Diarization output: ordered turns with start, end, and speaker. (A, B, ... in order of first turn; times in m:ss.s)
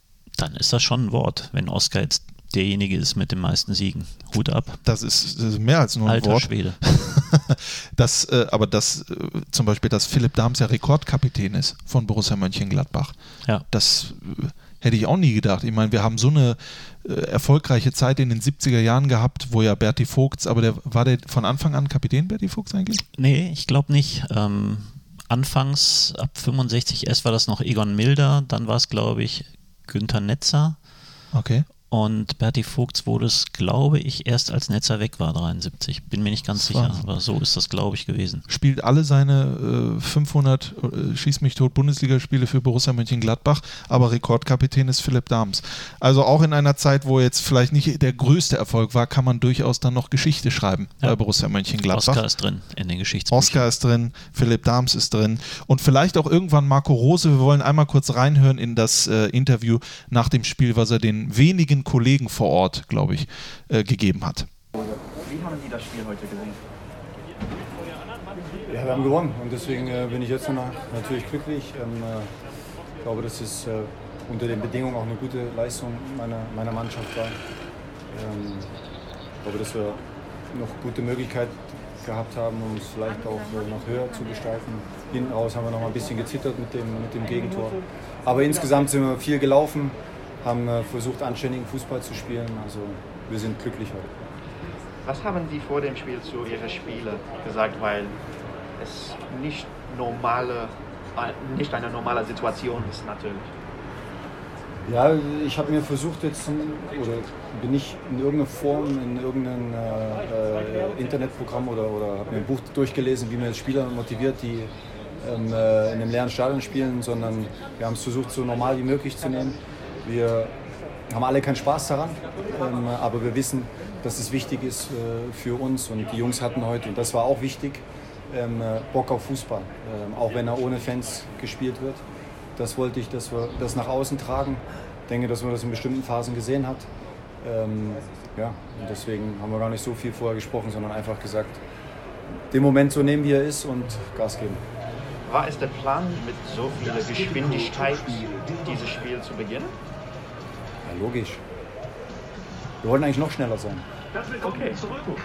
0:00.4-0:04.8 A
0:04.8-0:13.1 B
0:06.0-0:06.8 A
0:13.7-0:23.0 B
0:23.2-0:30.8 A
0:31.3-0:31.7 B
0:31.9-0:38.4 A
0:36.7-0:37.0 B
0:38.5-0:52.2 B
0:51.9-0:53.6 A
0:53.3-1:04.5 B
1:04.8-1:06.6 C
1:08.7-1:12.3 D
1:13.0-1:17.4 D
1:18.1-1:18.7 D
1:19.4-1:20.0 D
1:20.5-1:34.1 D
1:35.0-1:38.2 C
1:38.8-1:43.5 C
1:44.8-1:54.7 D
1:55.2-2:00.5 D
2:01.1-2:12.0 D
2:12.6-2:16.9 D
2:17.4-2:21.6 D
2:22.5-2:24.6 D
2:25.2-2:29.7 C
2:30.8-2:31.4 D
2:32.8-2:33.8 D
2:34.4-2:34.8 C